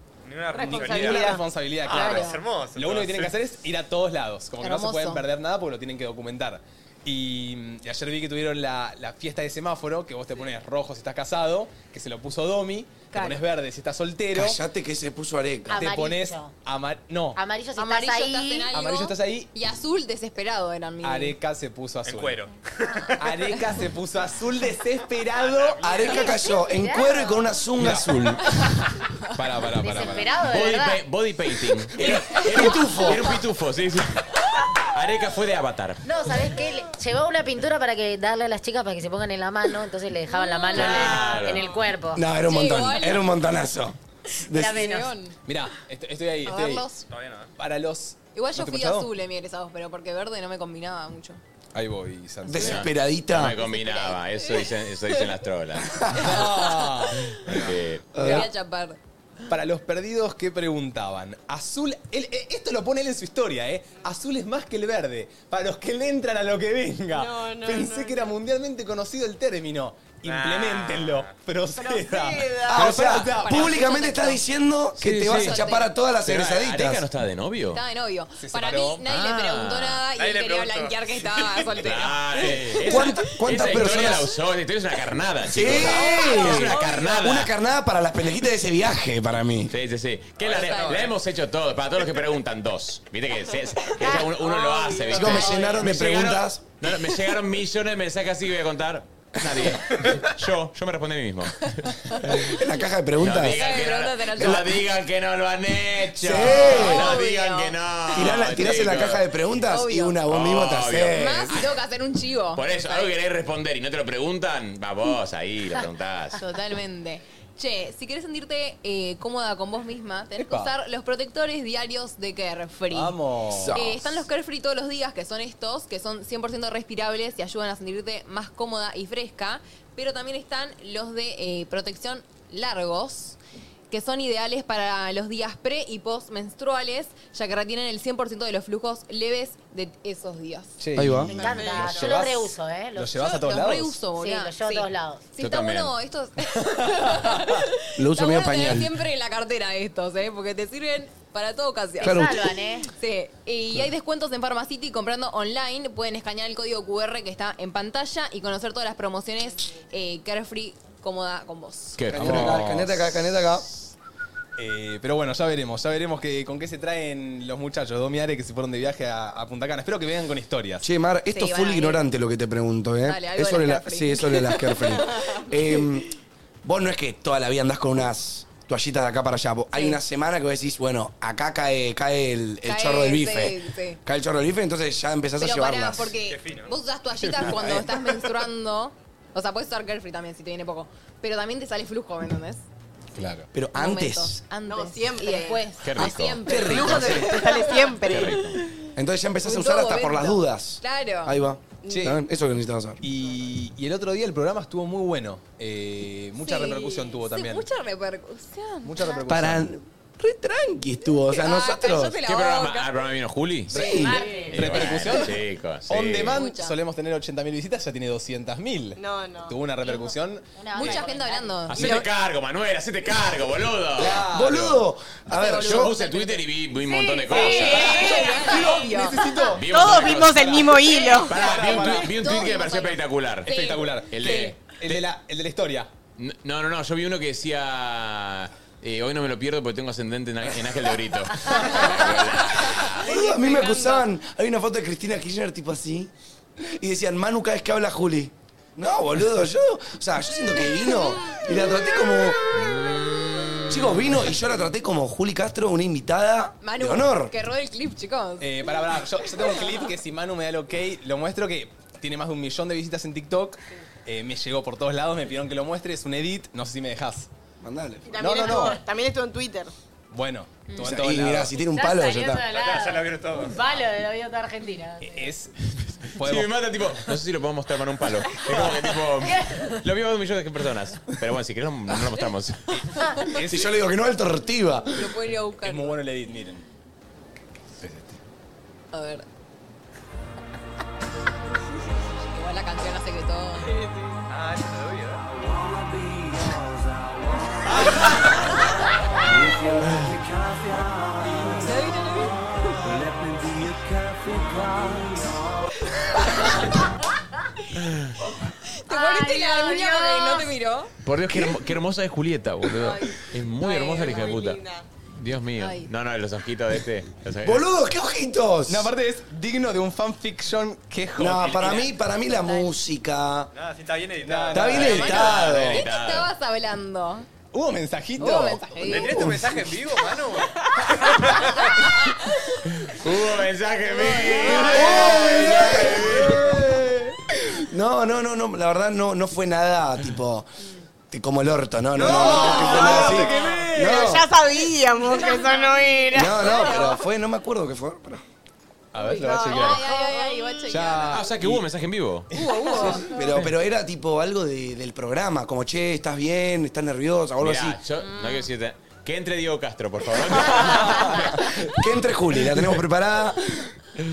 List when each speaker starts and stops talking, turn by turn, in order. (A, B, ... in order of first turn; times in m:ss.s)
0:00.2-0:03.4 A
0:00.5-0:02.2 B
0:00.6-0:14.6 C
0:02.0-0:02.4 D
0:04.6-0:05.2 D
0:13.1-0:13.4 D
0:14.3-0:15.8 E
0:15.7-0:16.5 F
0:15.7-0:17.4 C
0:17.4-0:18.7 F
0:17.8-0:21.4 D
0:18.7-0:19.5 C
0:21.0-0:22.5 C
0:22.0-0:23.6 A
0:23.2-0:25.8 C
0:25.3-0:26.4 A
0:25.8-0:28.7 E
0:26.5-0:27.4 F
0:27.8-0:28.1 C
0:28.5-0:28.8 D
0:29.4-0:30.4 C
0:29.7-0:31.0 F
0:30.4-0:36.1 G
0:32.0-0:33.3 E
0:36.0-0:42.3 F
0:40.7-0:41.7 G
0:41.4-0:41.8 B
0:42.1-0:44.9 E
0:42.4-0:43.3 D
0:44.5-0:45.1 F
0:44.5-0:45.4 D
0:45.4-0:46.9 C
0:46.4-0:47.1 D
0:47.1-0:47.5 A
0:47.6-0:49.1 C
0:48.4-0:51.4 D
0:51.7-0:52.9 C
0:52.5-0:53.6 E
0:52.6-0:56.2 G
0:53.6-0:55.4 D
0:56.0-0:56.4 E
0:56.2-0:58.5 C
0:56.2-0:57.4 D
0:57.4-0:58.1 G
0:58.1-0:58.5 E
0:58.2-0:59.0 D
0:59.5-1:13.8 C
1:07.1-1:08.3 B
1:10.2-1:11.3 A
1:11.8-1:12.9 B
1:12.6-1:17.1 E
1:12.9-1:14.4 D
1:15.0-1:15.7 G
1:15.3-1:15.9 D
1:16.2-1:17.8 G
1:17.7-1:24.1 D
1:18.4-1:19.0 C
1:19.1-1:20.0 G
1:20.1-1:21.7 A
1:21.8-1:27.5 G
1:22.8-1:24.3 E
1:25.4-1:29.7 E
1:25.8-1:27.3 B
1:26.0-1:26.5 D
1:29.7-1:42.6 G
1:30.4-1:31.2 A
1:30.5-1:31.1 D
1:33.8-1:35.6 B
1:34.0-1:34.4 F
1:35.1-1:36.6 E
1:35.4-1:35.8 D
1:42.2-1:43.7 E
1:43.2-1:49.3 G
1:43.5-1:44.8 D
1:44.4-1:44.8 E
1:46.2-1:47.2 E
1:46.3-1:48.4 D
1:48.1-1:51.6 E
1:49.7-1:50.2 D
1:50.3-1:51.8 G
1:51.1-1:53.1 D
1:52.5-1:56.4 G
1:56.3-2:03.2 D
2:00.4-2:00.7 C
2:02.9-2:03.9 C
2:03.5-2:04.2 E
2:03.7-2:13.4 D
2:13.9-2:20.8 D
2:20.8-2:24.0 C
2:21.0-2:21.3 E
2:21.3-2:23.3 F
2:21.3-2:22.4 B
2:23.2-2:42.0 D
2:24.1-2:25.2 F
2:25.4-2:25.9 G
2:26.6-2:27.6 C
2:28.0-2:28.9 E
2:32.0-2:32.5 E
2:32.0-2:32.9 F
2:42.0-2:42.8 G
2:42.1-2:43.1 C
2:42.1-2:43.7 E
2:44.6-2:50.9 C
2:50.8-2:56.1 E
2:51.3-2:52.0 D
2:53.0-2:55.9 D
2:56.6-3:06.2 E
2:59.7-3:00.0 D
3:02.7-3:04.0 D
3:05.4-3:12.6 D
3:06.2-3:06.8 A
3:07.2-3:07.9 C
3:13.2-3:13.5 C
3:13.5-3:14.4 E
3:13.8-3:18.9 D
3:14.7-3:15.7 B
3:15.8-3:17.2 G
3:16.1-3:17.4 E
3:16.6-3:18.5 B
3:18.0-3:18.6 G
3:19.0-3:23.0 E
3:19.4-3:21.4 D
3:21.8-3:22.1 B
3:21.9-3:22.2 C
3:23.0-3:27.7 C
3:26.4-3:29.2 D
3:28.8-3:29.7 C
3:29.3-3:32.2 E
3:31.3-3:32.9 D
3:32.2-3:36.4 G
3:33.7-3:41.0 C
3:33.7-3:34.2 E
3:33.8-3:34.1 D
3:33.9-3:34.9 F
3:36.3-3:36.8 D
3:39.0-3:39.6 B
3:39.9-3:41.7 F
3:40.7-3:42.1 D
3:41.7-3:44.8 G
3:44.0-3:44.7 C
3:44.0-3:46.0 E
3:45.3-3:49.5 D
3:45.4-3:48.3 G
3:47.3-3:48.5 B
3:47.4-3:52.4 C
3:49.5-3:55.0 G
3:49.6-3:51.5 B
3:51.0-3:54.5 D
3:53.5-3:55.9 C
3:56.2-4:03.1 G
4:03.0-4:12.4 E
4:03.1-4:04.0 B
4:13.7-4:17.3 E
4:16.6-4:18.5 D
4:18.4-4:27.3 C
4:27.6-4:28.5 E
4:28.1-4:29.7 B
4:28.2-4:28.8 C
4:30.1-4:31.5 C
4:30.8-4:32.5 E
4:31.6-4:35.3 F
4:32.5-4:33.8 A
4:35.0-4:36.7 C
4:36.2-4:42.7 G
4:39.2-4:39.7 F
4:42.8-4:43.7 C
4:43.5-4:45.2 E
4:45.0-4:46.0 D
4:45.6-4:46.6 C
4:47.8-4:48.2 C
4:48.9-4:49.2 D
4:52.1-4:53.8 D
4:54.3-4:55.3 A
5:01.5-5:02.8 D
5:07.8-5:08.2 G
5:08.8-5:10.9 D
5:08.9-5:10.5 F
5:11.0-5:14.6 G
5:11.3-5:11.6 E
5:12.8-5:14.8 B
5:15.1-5:17.7 G
5:15.6-5:15.9 D
5:17.4-5:18.9 E
5:18.7-5:21.9 C
5:21.2-5:23.5 E
5:22.3-5:22.7 D
5:23.5-5:24.9 A
5:24.2-5:25.5 C
5:24.5-5:25.9 E
5:24.7-5:26.3 G
5:24.9-5:27.3 D
5:27.5-5:29.1 C
5:28.2-5:29.3 D
5:28.8-5:30.6 A
5:28.9-5:29.7 E
5:30.8-5:31.1 C
5:31.1-5:31.7 A
5:31.7-5:32.2 D
5:32.8-5:36.5 G
5:34.0-5:35.1 D
5:34.1-5:37.0 C
5:34.7-5:40.5 E
5:41.1-5:44.3 E
5:42.0-5:44.2 C
5:43.8-5:47.0 B
5:45.1-5:46.8 D
5:46.1-5:48.2 E
5:48.9-5:49.9 C
5:49.0-5:51.0 B
5:49.1-5:51.2 D
5:50.7-5:51.6 C
5:51.1-5:52.3 G
5:52.3-5:53.5 C
5:52.3-5:53.2 D
5:53.0-5:57.8 E
5:57.4-6:01.6 G
5:58.0-5:58.5 D
6:00.5-6:01.6 C
6:00.7-6:01.2 D
6:01.7-6:03.6 E
6:02.5-6:02.8 C